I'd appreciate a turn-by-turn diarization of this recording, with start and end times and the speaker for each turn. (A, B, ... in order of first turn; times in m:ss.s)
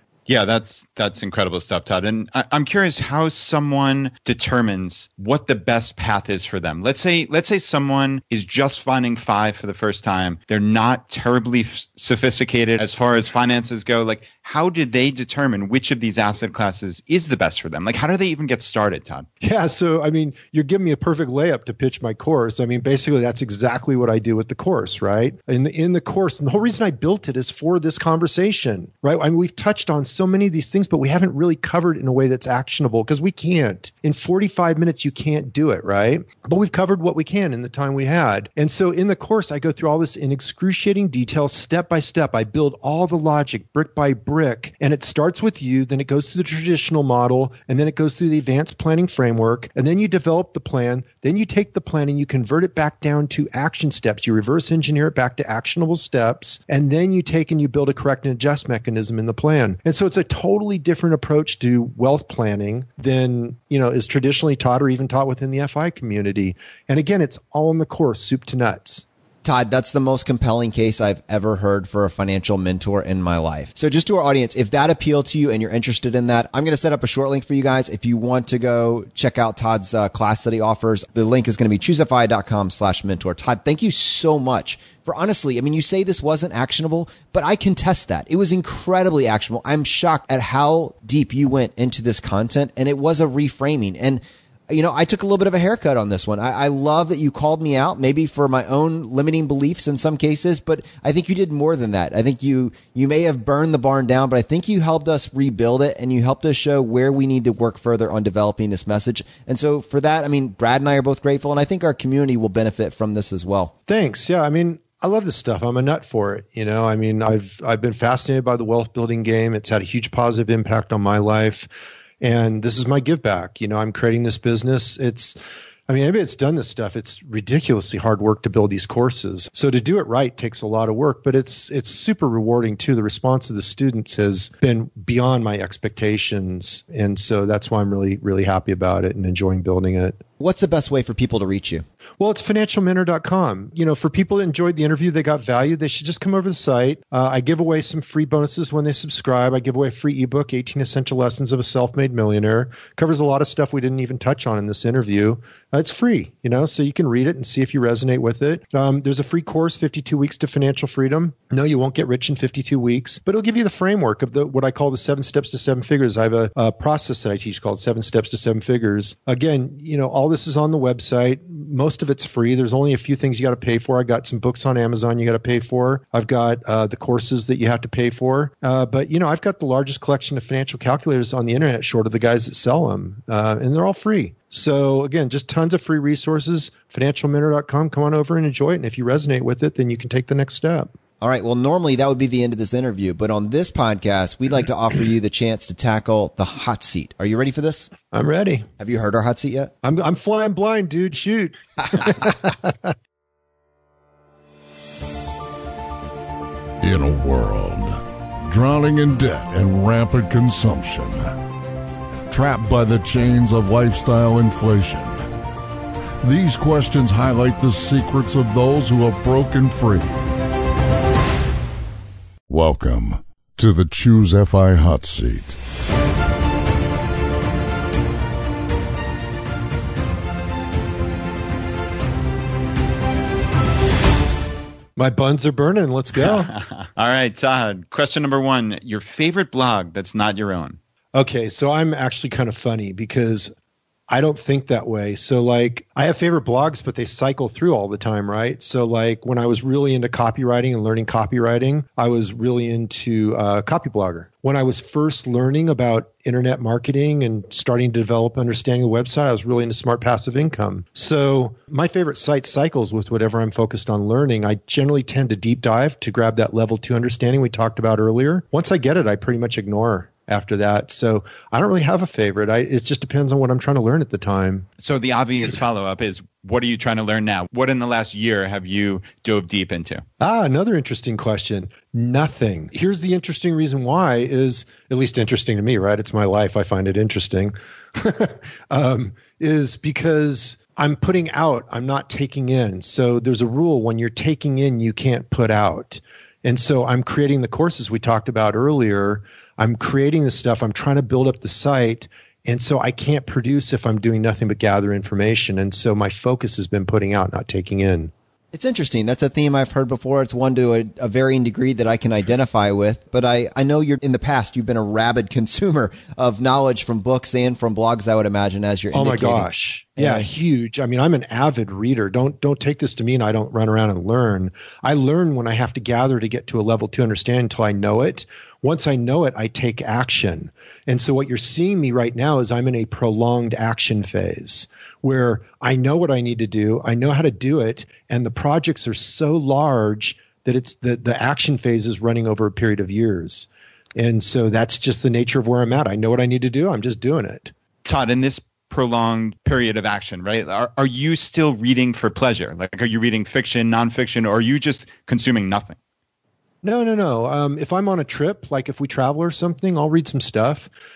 0:00.3-0:19.3 A
0:19.4-1:09.0 B
1:09.4-1:53.7 C
1:53.9-2:01.7 B
2:02.2-2:05.4 B
2:05.9-2:20.2 B
2:20.4-2:21.8 C
2:22.2-3:10.9 B
3:11.2-3:17.9 C
3:18.1-3:18.7 B
3:18.8-3:19.7 C
3:19.8-3:22.9 B
3:26.8-3:31.4 D
3:32.3-3:35.2 D
3:36.2-3:40.3 D
3:42.5-3:45.6 D
3:55.0-3:56.5 B
3:56.2-4:00.8 A
4:01.1-4:03.5 B
4:04.1-4:34.7 B
4:34.8-4:40.0 A
4:40.2-5:08.1 B
5:08.5-5:20.3 C
5:18.9-5:47.5 B
5:47.8-5:55.8 A
5:56.6-6:00.7 B